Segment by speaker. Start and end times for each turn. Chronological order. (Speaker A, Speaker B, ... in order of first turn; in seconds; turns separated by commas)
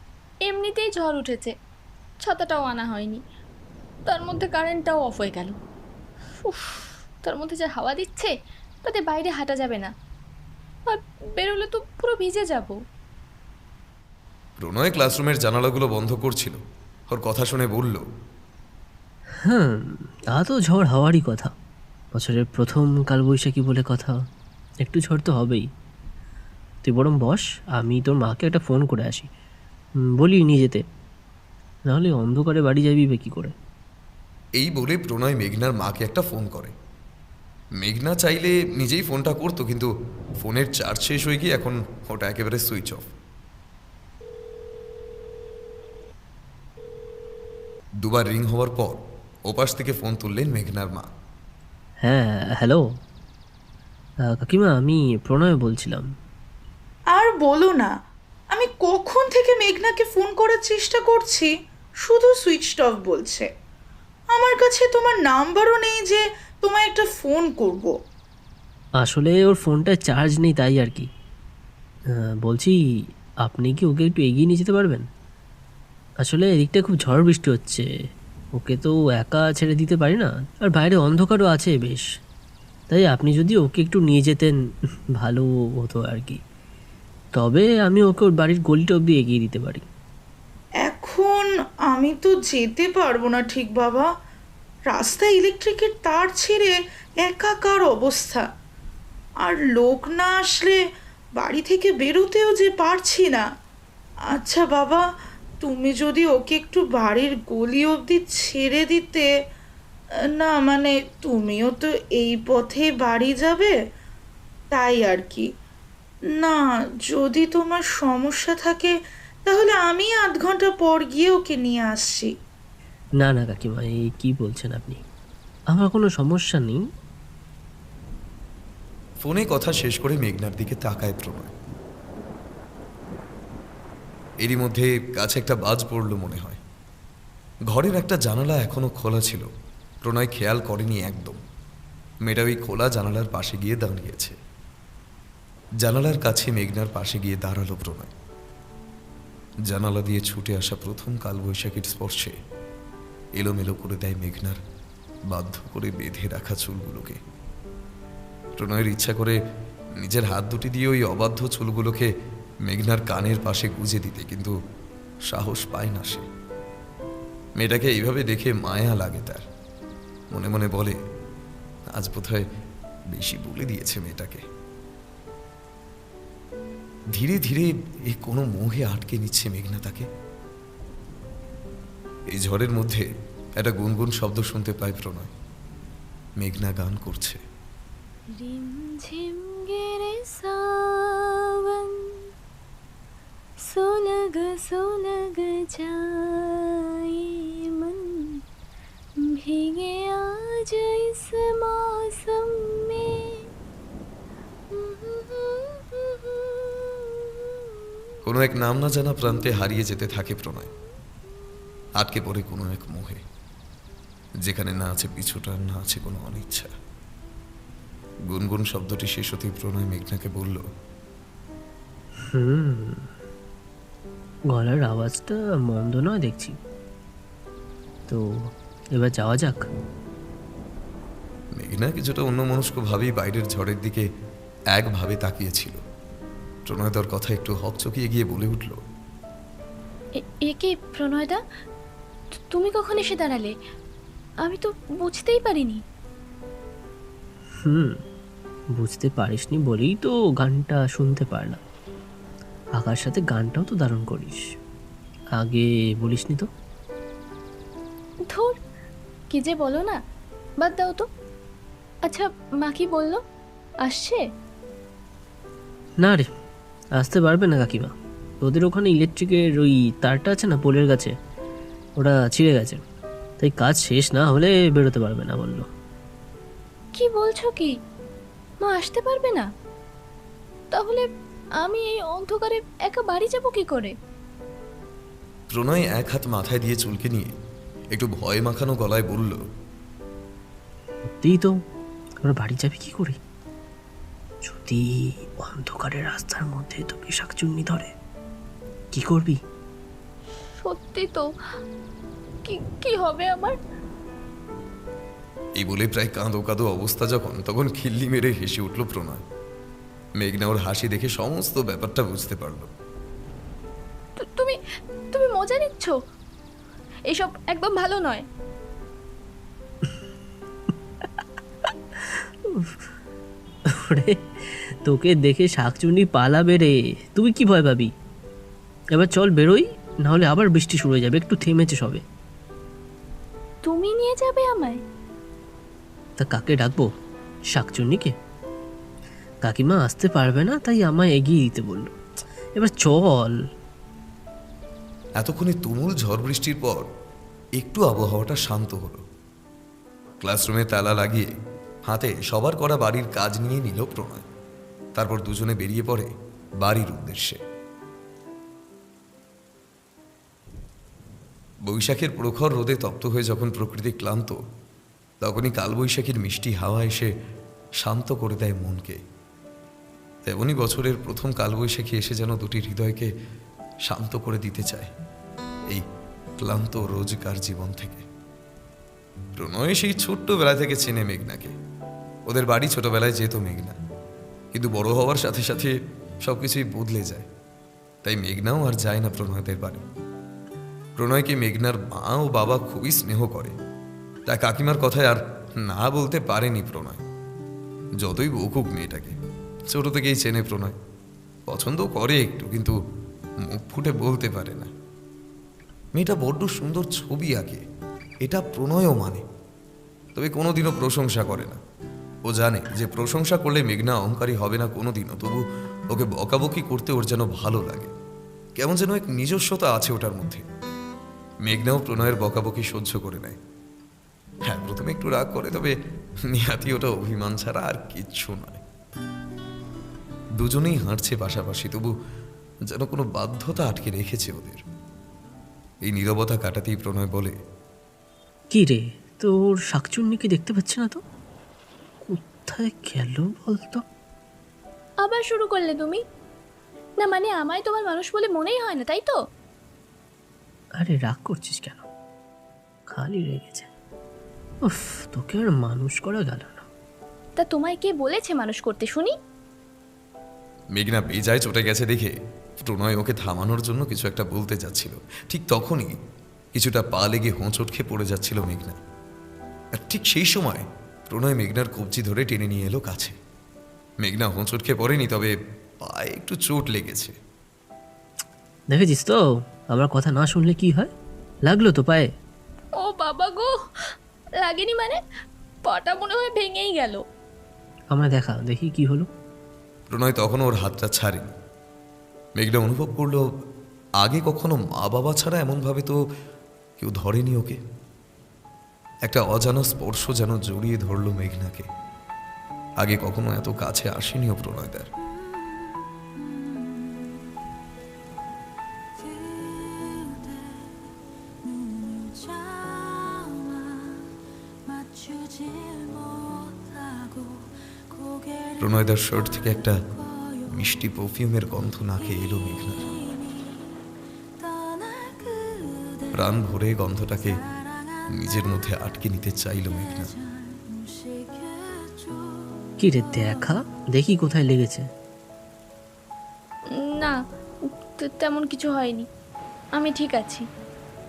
Speaker A: 0.5-1.5, Speaker A: 2.2-3.2, Speaker A: 4.1-5.5, Speaker A: 6.5-8.3, Speaker A: 8.8-9.9, Speaker A: 10.9-12.8, Speaker B: 14.6-16.6, Speaker B: 17.1-18.1, Speaker C: 19.4-21.5, Speaker C: 22.1-24.2, Speaker C: 24.8-25.7, Speaker C: 26.8-29.3, Speaker C: 30.2-30.8, Speaker C: 31.9-33.5, Speaker B: 34.6-36.7, Speaker B: 37.8-39.9, Speaker B: 40.4-43.1, Speaker B: 48.0-51.1, Speaker C: 52.0-52.9, Speaker C: 54.2-56.1, Speaker D: 57.1-57.9, Speaker D: 58.5-61.5, Speaker D: 62.0-63.5, Speaker D: 64.3-67.9, Speaker C: 69.0-71.1, Speaker C: 72.1-72.8, Speaker C: 73.4-75.1, Speaker C: 76.2-77.9, Speaker C: 78.6-82.0, Speaker C: 82.9-84.6, Speaker C: 85.2-86.4, Speaker C: 87.4-89.9, Speaker D: 90.8-94.1, Speaker D: 94.9-98.4, Speaker D: 99.5-100.8, Speaker D: 101.4-103.5, Speaker D: 104.3-105.0, Speaker D: 105.6-109.3, Speaker D: 110.4-113.8, Speaker D: 114.7-115.5, Speaker D: 116.4-118.9, Speaker D: 119.5-122.3, Speaker C: 123.2-125.0, Speaker C: 125.7-126.8, Speaker B: 129.2-131.5, Speaker B: 134.4-136.6, Speaker B: 137.7-139.5, Speaker B: 140.1-141.4, Speaker B: 142.3-144.4, Speaker B: 145.8-148.1, Speaker B: 149.7-152.4, Speaker B: 153.4-154.6, Speaker B: 155.3-157.2, Speaker B: 158.6-159.4, Speaker B: 160.0-162.1, Speaker B: 162.7-164.6, Speaker B: 165.3-166.3, Speaker B: 167.6-169.4, Speaker B: 170.3-171.0, Speaker B: 171.9-172.5, Speaker B: 173.1-174.5, Speaker B: 177.2-180.1, Speaker B: 182.3-185.3, Speaker B: 186.4-187.4, Speaker A: 188.4-192.2, Speaker A: 193.7-198.4, Speaker A: 199.2-203.4, Speaker A: 204.7-207.8, Speaker B: 208.2-210.7, Speaker B: 212.0-213.2, Speaker B: 214.5-216.7, Speaker B: 218.3-220.7, Speaker C: 222.3-223.1, Speaker C: 224.5-226.6, Speaker C: 228.1-229.7, Speaker B: 231.6-234.1, Speaker B: 234.7-235.8, Speaker B: 236.7-238.8, Speaker A: 240.2-241.4, Speaker A: 242.4-243.5, Speaker A: 244.4-245.8, Speaker C: 247.6-248.0, Speaker C: 248.7-251.6, Speaker C: 252.8-254.4, Speaker C: 255.3-256.5, Speaker A: 258.3-258.6, Speaker A: 259.3-260.0, Speaker A: 260.6-261.1, Speaker A: 262.1-263.2, Speaker A: 263.9-264.2, Speaker C: 266.0-266.3, Speaker C: 266.9-271.1, Speaker C: 272.0-272.8, Speaker C: 273.4-275.7, Speaker A: 277.0-277.8, Speaker A: 278.6-279.5, Speaker A: 280.7-281.1, Speaker A: 281.6-283.9, Speaker B: 285.5-287.3, Speaker B: 287.9-289.4, Speaker C: 291.1-291.6, Speaker C: 292.2-293.2, Speaker C: 294.4-297.9, Speaker C: 298.9-299.4, Speaker A: 300.6-301.3, Speaker A: 302.4-303.6, Speaker B: 305.6-309.2, Speaker B: 310.2-312.7, Speaker A: 314.2-314.6, Speaker A: 315.1-316.0, Speaker A: 317.1-318.2, Speaker C: 321.9-322.8, Speaker C: 323.7-327.9, Speaker C: 328.9-332.0, Speaker A: 333.6-334.8, Speaker C: 336.2-336.9, Speaker C: 337.5-338.1, Speaker C: 339.4-342.0, Speaker C: 342.6-343.4, Speaker B: 345.2-346.9, Speaker B: 347.6-349.1, Speaker B: 350.2-351.3, Speaker B: 351.9-354.3, Speaker B: 355.0-357.4, Speaker B: 361.7-364.4, Speaker B: 365.2-367.1, Speaker B: 367.8-369.0, Speaker B: 370.3-373.1, Speaker B: 373.9-374.9, Speaker B: 376.4-378.1, Speaker B: 379.4-381.6, Speaker B: 382.3-383.8, Speaker B: 384.5-387.3, Speaker B: 388.0-389.9, Speaker B: 391.0-393.6, Speaker B: 394.3-397.0, Speaker B: 398.0-399.2, Speaker B: 399.7-400.8, Speaker B: 401.5-402.8, Speaker B: 403.4-404.7, Speaker B: 405.9-407.6, Speaker B: 408.2-409.3, Speaker B: 410.1-411.6, Speaker B: 412.3-417.9, Speaker B: 418.6-420.5, Speaker B: 421.5-423.4, Speaker B: 424.5-425.8, Speaker B: 426.3-428.6, Speaker B: 430.4-431.9, Speaker B: 432.7-434.6, Speaker B: 435.9-437.4, Speaker C: 438.5-441.0, Speaker C: 442.0-443.9, Speaker A: 445.0-446.0, Speaker A: 447.0-449.2, Speaker C: 450.8-451.9, Speaker C: 452.9-453.7, Speaker C: 454.6-456.7, Speaker A: 457.4-459.1, Speaker B: 460.7-465.9, Speaker B: 466.5-468.8, Speaker B: 469.7-473.2, Speaker B: 474.0-477.1, Speaker C: 478.7-480.9, Speaker C: 481.5-482.1, Speaker A: 482.8-483.6, Speaker A: 484.4-485.0, Speaker A: 485.7-487.0, Speaker C: 487.9-489.1, Speaker B: 489.9-491.3, Speaker B: 492.4-493.2, Speaker B: 494.0-496.0, Speaker B: 496.8-497.6, Speaker B: 499.1-501.7, Speaker B: 502.8-504.9, Speaker B: 518.6-519.8, Speaker B: 520.4-523.0, Speaker B: 526.1-527.4, Speaker B: 528.1-530.2, Speaker C: 532.8-534.9, Speaker A: 536.8-539.1, Speaker A: 539.8-540.5